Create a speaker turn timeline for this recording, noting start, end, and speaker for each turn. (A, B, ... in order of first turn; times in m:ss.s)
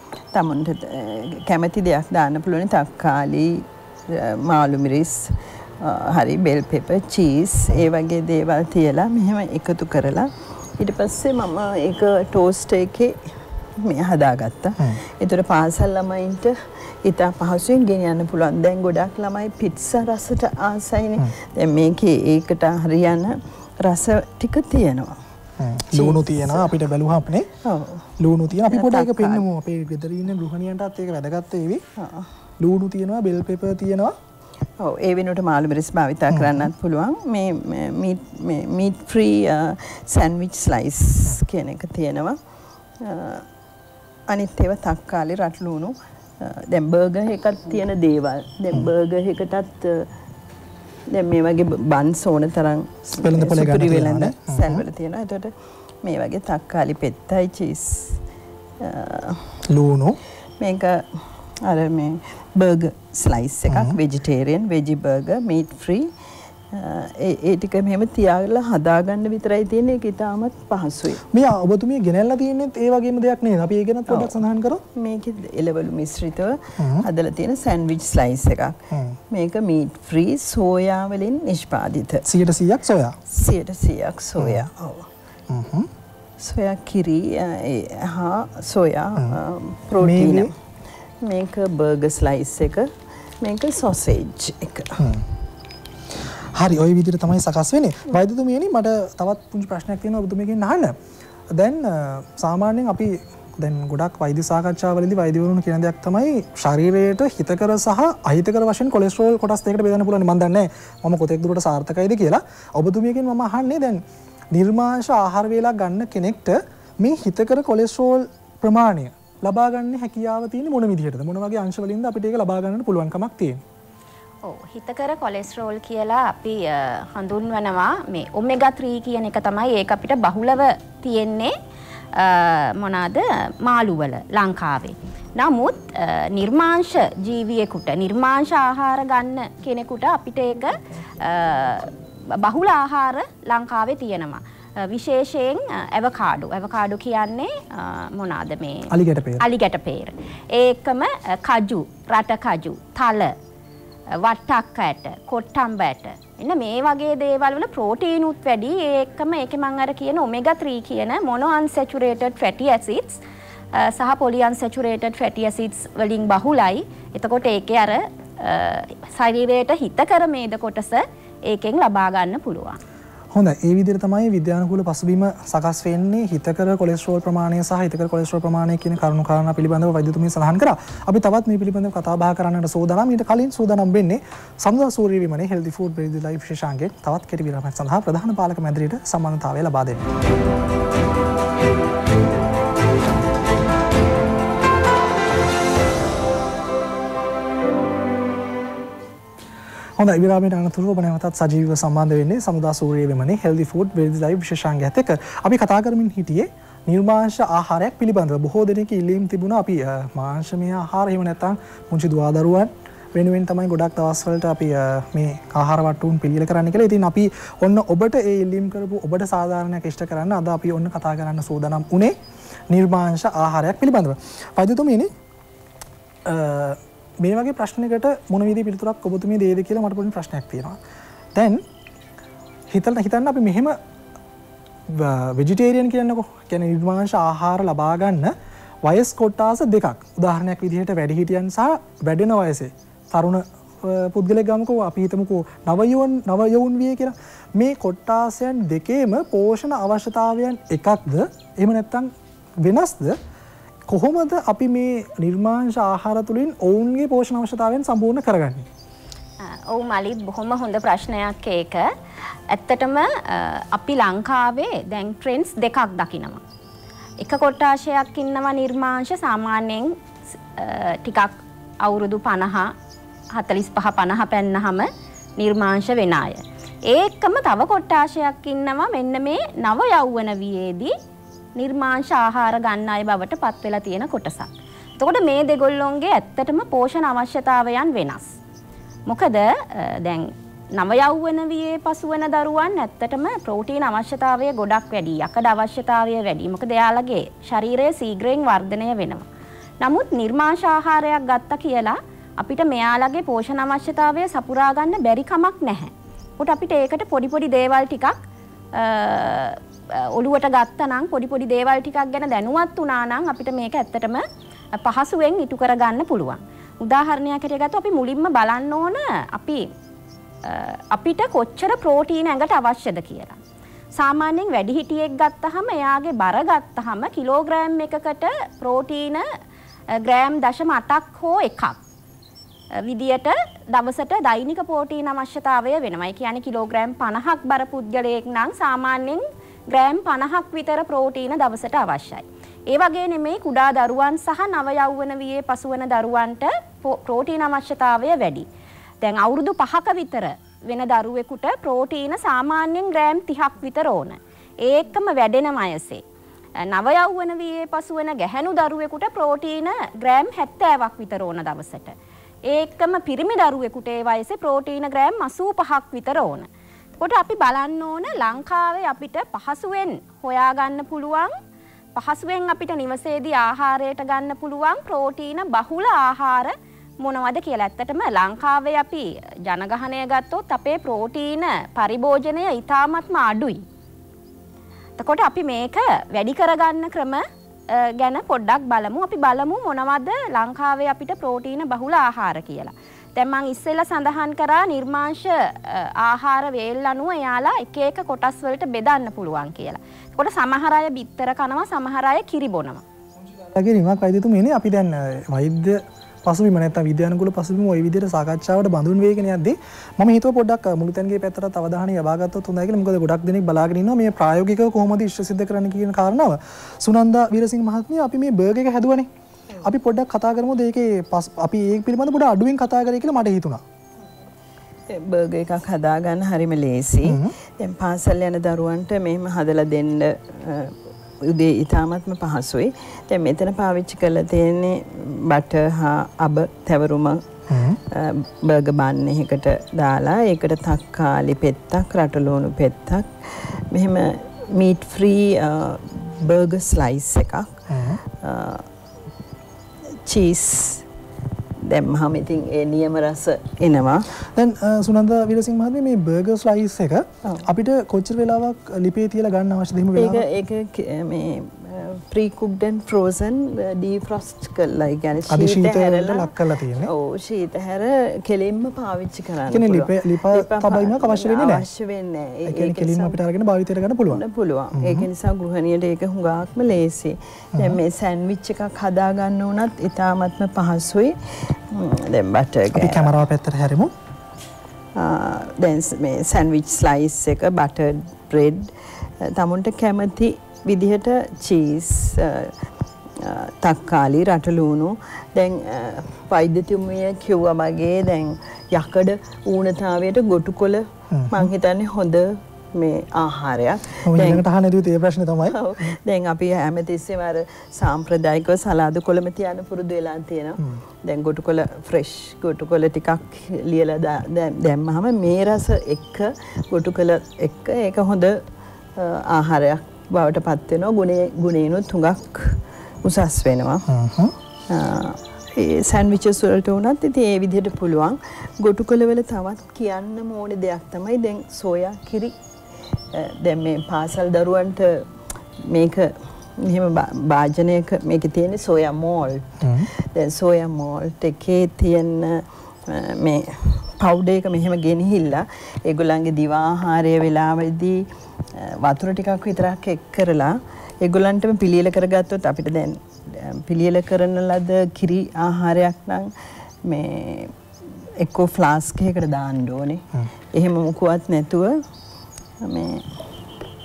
0:00.3-0:25.2 A
0:25.6-0:27.5 B
0:25.9-0:26.7 A
0:27.6-0:29.4 A
0:28.2-0:31.8 B
0:32.0-0:32.3 A
0:32.6-0:34.1 B
0:34.8-0:42.4 A
0:36.3-0:36.7 B
0:43.0-0:43.4 A
0:44.3-0:50.1 A
0:51.1-0:58.2 A
0:53.2-0:54.8 B
0:58.8-0:59.6 A
0:59.7-1:00.2 B
1:00.6-1:06.1 A
1:03.7-1:04.0 B
1:06.7-1:11.2 A
1:11.3-1:14.8 B
1:14.1-1:14.4 A
1:14.9-1:22.3 A
1:16.8-1:17.0 B
1:18.9-1:19.2 B
1:22.2-1:23.2 B
1:23.3-1:25.1 A
1:24.4-1:24.7 B
1:25.5-1:25.9 B
1:26.4-1:30.5 A
1:30.0-1:30.5 B
1:31.2-1:35.1 A
1:35.0-1:35.2 B
1:36.5-1:40.9 B
1:41.5-1:54.0 B
1:54.5-2:03.6 B
2:04.4-2:11.5 C
2:12.1-2:33.3 C
2:28.9-2:29.4 B
2:34.2-2:43.2 C
2:43.7-2:52.8 C
2:53.3-3:10.0 B
3:20.0-3:42.2 B
3:42.7-3:45.1 B
3:46.2-3:50.8 B
3:51.3-3:51.6 B
3:52.7-3:53.8 B
3:54.9-3:58.3 B
3:58.8-4:13.2 B
4:13.9-4:18.7 B
4:19.4-4:21.9 C
4:22.5-4:26.4 C
4:27.2-4:30.0 C
4:30.5-4:32.7 C
4:33.3-4:40.9 C
4:41.6-4:48.4 C
4:49.1-4:59.2 C
4:59.8-5:08.2 C
5:08.7-5:14.2 C
5:14.8-5:19.7 C
5:20.4-5:23.4 C
5:24.0-5:29.2 C
5:29.9-5:31.8 C
5:32.8-5:48.4 C
5:49.0-5:56.0 C
5:56.6-6:01.9 C
6:02.4-6:11.3 C
6:11.9-6:23.6 C
6:25.0-6:42.8 C
6:43.2-6:59.1 B
6:59.6-7:03.6 B
7:04.9-7:17.2 A
7:07.0-7:07.3 B
7:17.5-7:17.8 B
7:17.9-7:28.7 A
7:27.7-7:28.0 B
7:30.0-7:30.8 A
7:31.6-7:34.1 A
7:34.3-7:40.2 B
7:39.9-7:53.2 A
7:45.3-7:46.9 B
7:49.5-7:51.6 B
7:52.4-7:54.2 B
7:54.1-8:03.1 A
7:54.7-7:55.1 B
8:02.7-8:03.9 B
8:05.0-8:12.6 A
8:13.2-8:24.4 A
8:21.1-8:21.5 B
8:24.0-8:25.6 B
8:25.5-8:43.9 A
8:43.9-8:44.3 B
8:44.7-8:52.4 A
8:53.1-9:17.5 A
8:59.6-8:59.9 B
9:18.2-9:21.8 A
9:22.6-9:23.2 A